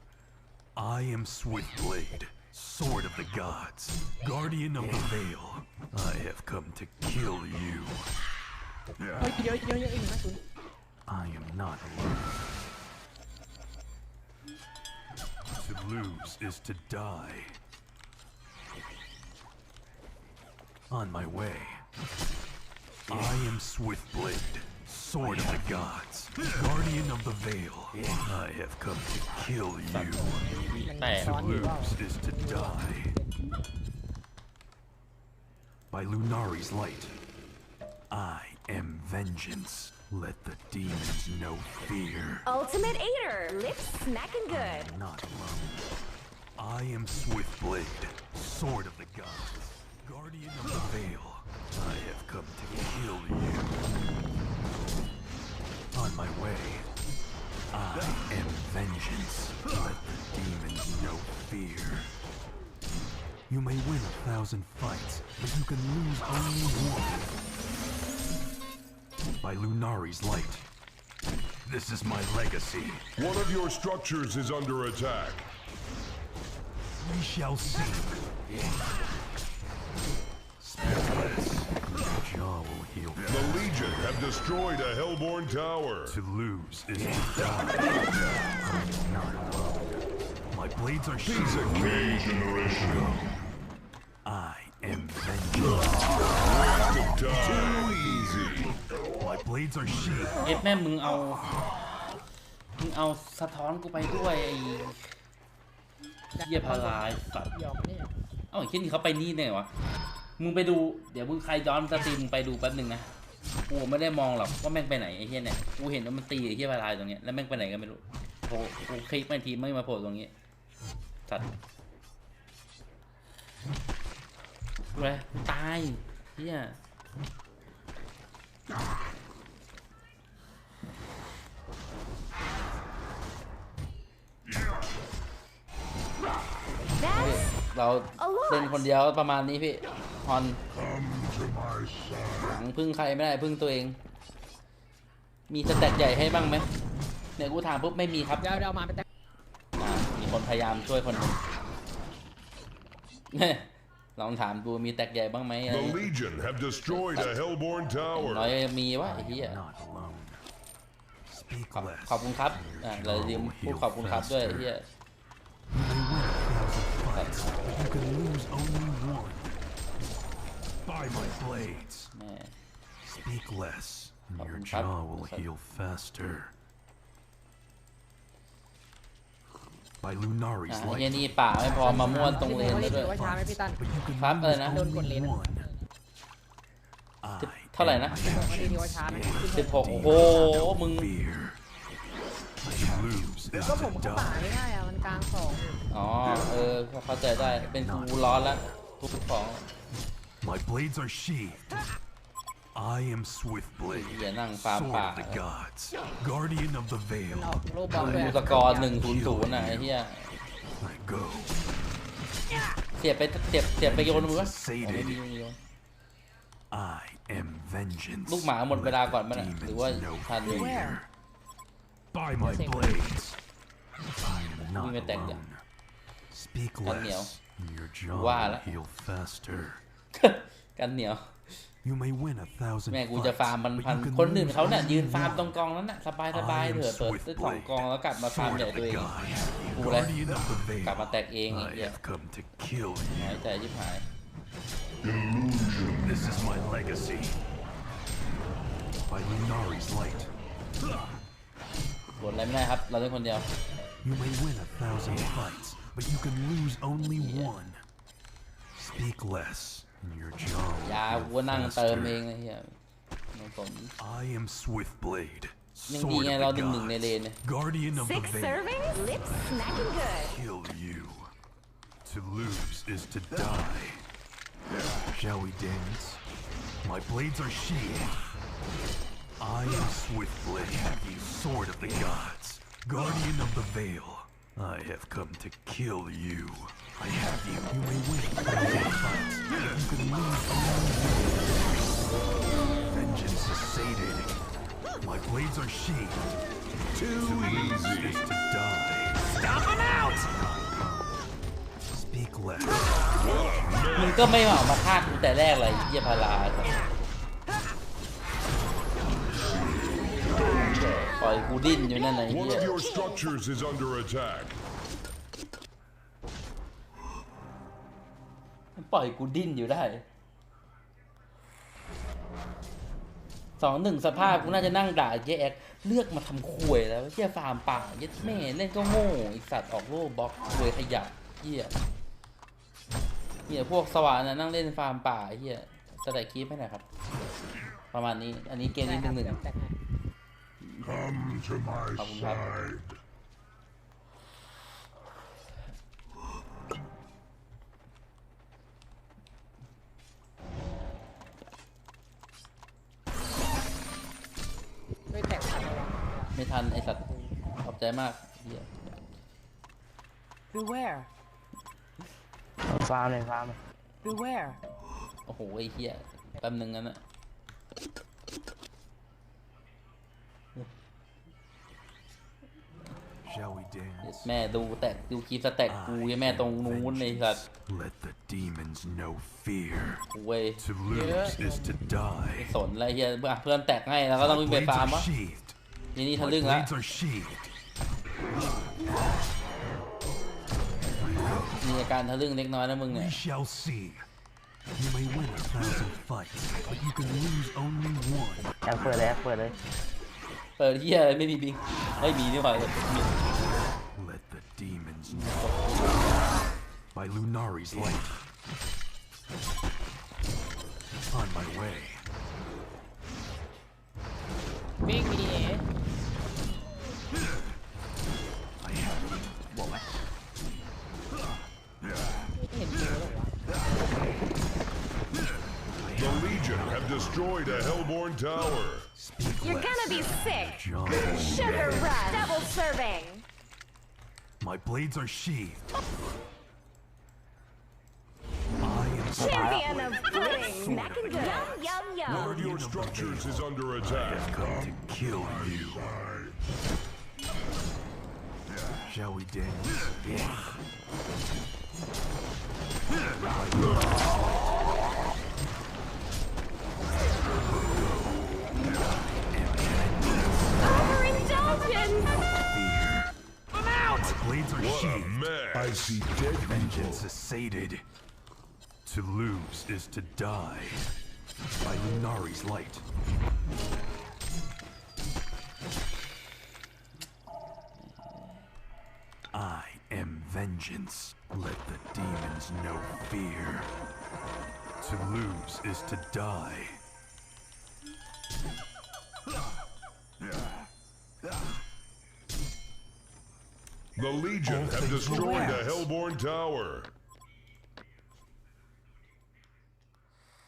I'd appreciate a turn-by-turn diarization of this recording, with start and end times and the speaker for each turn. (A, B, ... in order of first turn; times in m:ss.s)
0:00.7-0:08.1 A
0:09.2-0:10.4 B
0:11.0-0:12.5 A
0:15.5-0:17.6 A
0:20.9-0:21.8 A
0:23.1-0:30.4 A
0:29.9-0:31.6 C
0:30.0-0:33.3 B
0:31.0-0:33.1 A
0:35.9-0:37.1 A
0:38.1-0:42.5 A
0:42.4-0:44.9 D
0:44.5-0:45.9 A
0:46.6-0:53.8 A
0:55.9-0:56.9 A
0:57.7-1:02.1 A
1:03.5-1:07.3 A
1:09.4-1:10.7 A
1:11.6-1:13.1 A
1:13.2-1:15.5 E
1:17.0-1:18.2 A
1:20.6-1:24.2 A
1:23.3-1:26.2 E
1:26.0-1:33.4 A
1:31.2-1:32.7 E
1:34.2-1:36.3 A
1:35.6-1:38.8 E
1:37.3-1:40.4 A
1:40.4-1:41.5 C
1:42.8-1:45.1 C
1:46.4-1:48.1 B
1:46.4-1:47.5 C
1:48.5-1:49.7 C
1:50.4-1:53.1 C
1:53.7-2:00.3 C
2:04.9-2:06.8 C
2:17.0-2:17.6 D
2:17.1-2:20.6 C
2:18.2-2:18.9 D
2:22.4-2:24.0 C
2:25.5-2:26.7 C
2:27.4-2:28.6 C
2:28.4-2:29.0 B
2:29.8-2:31.4 C
2:33.3-2:36.1 C
2:35.7-2:38.6 E
2:36.9-2:37.4 C
2:38.1-2:39.6 C
2:39.0-2:40.4 A
2:41.3-2:44.7 A
2:41.7-2:44.9 C
2:45.7-2:49.6 A
2:47.1-2:47.5 C
2:50.8-2:52.1 A
2:52.1-2:52.5 C
2:53.0-2:56.5 A
2:54.4-2:55.5 C
3:00.0-3:05.7 A
3:00.7-3:03.1 C
3:01.6-3:03.8 B
3:04.2-3:04.9 C
3:04.6-3:05.6 B
3:07.2-3:11.6 A
3:07.4-3:08.2 C
3:08.2-3:10.2 B
3:09.5-3:11.1 C
3:12.6-3:14.6 A
3:13.6-3:15.8 B
3:15.9-3:19.7 C
3:17.3-3:18.8 A
3:20.4-3:21.8 A
3:22.7-3:29.9 A
3:23.9-3:25.4 C
3:27.3-3:29.0 B
3:27.9-3:30.4 C
3:30.8-3:31.6 A
3:33.0-3:35.6 C
3:33.8-3:35.2 A
3:36.7-3:41.1 A
3:38.3-3:40.8 C
3:40.5-3:41.0 F
3:42.1-3:43.4 A
3:42.4-3:43.0 B
3:44.2-3:45.6 A
3:44.6-3:45.4 C
3:46.3-3:49.8 A
3:46.8-3:47.3 C
3:48.1-3:48.7 C
3:50.1-3:51.6 C
3:51.8-3:55.6 A
3:52.9-3:59.1 C
3:56.3-4:03.5 A
3:59.7-4:00.2 C
4:00.8-4:02.0 C
4:03.1-4:04.1 C
4:05.6-4:07.4 A
4:09.1-4:10.3 A
4:12.2-4:13.5 C
4:14.0-4:17.8 A
4:17.0-4:17.6 C
4:18.7-4:22.2 A
4:20.8-4:22.8 C
4:23.3-4:23.9 C
4:24.0-4:31.3 A
4:25.9-4:27.4 C
4:27.9-4:30.3 D
4:32.0-4:34.0 A
4:35.1-4:36.2 A
4:36.8-4:38.2 A
4:39.4-4:46.9 A
4:47.6-4:51.8 A
4:52.9-4:54.4 A
4:55.0-4:56.3 A
4:56.9-4:58.2 E
4:57.2-5:01.3 A
5:01.9-5:04.6 A
5:03.1-5:04.3 E
5:04.0-5:06.8 C
5:10.4-5:11.1 E
5:10.9-5:12.8 C
5:11.8-5:13.3 D
5:12.3-5:14.6 E
5:18.8-5:20.0 C
5:23.6-5:31.7 C
5:33.5-5:36.8 C
5:37.9-5:39.4 C
5:38.8-5:39.8 B
5:40.8-5:42.8 C
5:55.1-5:56.3 B
5:56.4-5:57.0 C
5:57.0-5:57.4 B
5:57.6-5:58.7 C
6:00.5-6:01.1 F
6:02.7-6:03.6 G
6:04.0-6:04.6 F
6:05.3-6:07.0 C
6:13.2-6:14.3 A
6:14.0-6:17.4 C
6:15.7-6:20.0 A
6:20.1-6:20.6 C
6:20.6-6:22.5 A
6:20.9-6:21.8 B
6:22.4-6:25.1 C
6:24.2-6:25.6 A
6:25.9-6:26.7 C
6:26.2-6:27.5 A
6:31.0-6:31.8 A
6:31.6-6:33.2 C
6:32.9-6:34.0 A
6:34.8-6:38.5 A
6:38.6-6:39.6 G
6:40.6-6:43.4 C
6:43.9-6:45.5 A
6:45.1-6:46.2 C
6:46.9-6:48.2 A
6:51.1-6:52.0 A
6:54.8-6:55.6 B
7:02.4-7:03.3 B
7:05.9-7:08.9 E
7:06.0-7:07.5 A
7:08.9-7:12.4 A
7:09.4-7:13.2 D
7:14.4-7:15.6 A
7:18.6-7:26.1 A
7:19.1-7:22.4 D
7:19.2-7:19.7 G
7:22.0-7:24.3 E
7:28.8-7:30.3 A
7:33.2-7:34.6 A
7:37.5-7:38.1 A
7:39.2-7:43.1 A
7:40.6-7:42.1 D
7:43.5-7:44.0 D
7:43.9-7:47.8 A
7:44.6-7:47.0 E
7:48.8-7:50.9 A
7:51.6-7:52.8 A
7:59.3-8:03.7 A
8:04.8-8:06.8 A
8:14.0-8:16.9 E
8:14.4-8:15.9 A
8:15.0-8:15.6 F